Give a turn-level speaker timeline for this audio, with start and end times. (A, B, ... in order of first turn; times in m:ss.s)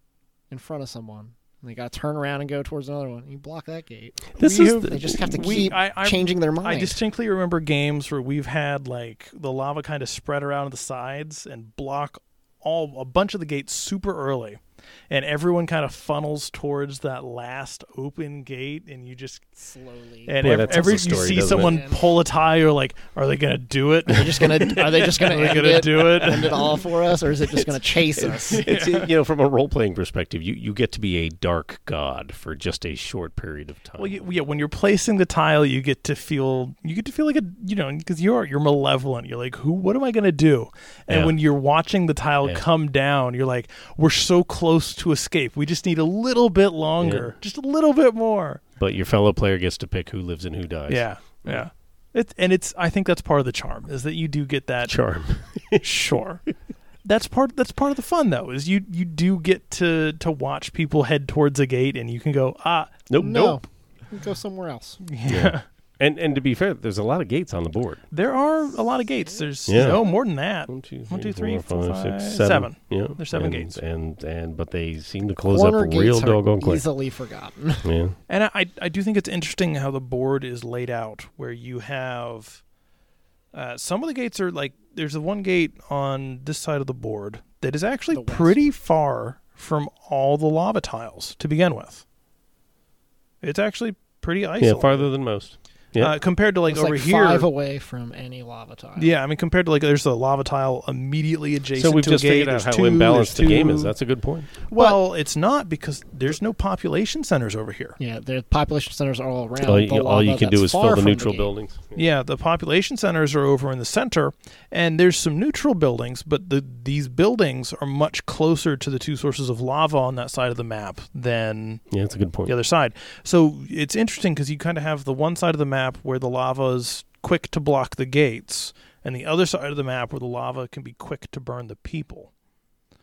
0:00.5-0:07.0 A
0:04.4-0:05.7 B
0:04.4-0:19.5 C
0:19.6-0:22.0 A
0:20.2-0:26.9 C
0:20.4-0:21.8 B
0:24.1-0:28.6 A
0:28.1-0:34.3 B
0:28.5-0:29.1 C
0:34.0-0:48.6 C
0:41.1-0:41.3 B
0:47.0-0:47.3 B
0:48.8-0:51.6 B
0:50.9-0:55.0 C
0:54.9-0:55.8 B
0:55.8-0:56.4 C
0:57.0-1:03.0 C
1:03.1-1:03.6 B
1:03.2-1:05.0 A
1:05.0-1:05.6 C
1:05.3-1:08.0 B
1:08.1-1:13.8 C
1:09.7-1:10.1 B
1:10.7-1:16.8 B
1:15.5-1:17.9 A
1:17.8-1:18.2 B
1:18.3-1:22.6 C
1:23.5-1:32.0 C
1:28.1-1:28.6 A
1:33.4-1:35.1 C
1:34.6-1:36.2 B
1:36.0-1:37.5 C
1:36.7-1:39.1 A
1:39.0-1:43.9 C
1:41.7-1:44.5 B
1:44.6-1:48.0 C
1:48.0-1:51.5 A
1:49.6-1:52.0 B
1:51.9-2:01.8 C
2:01.9-2:02.5 B
2:02.4-2:12.3 C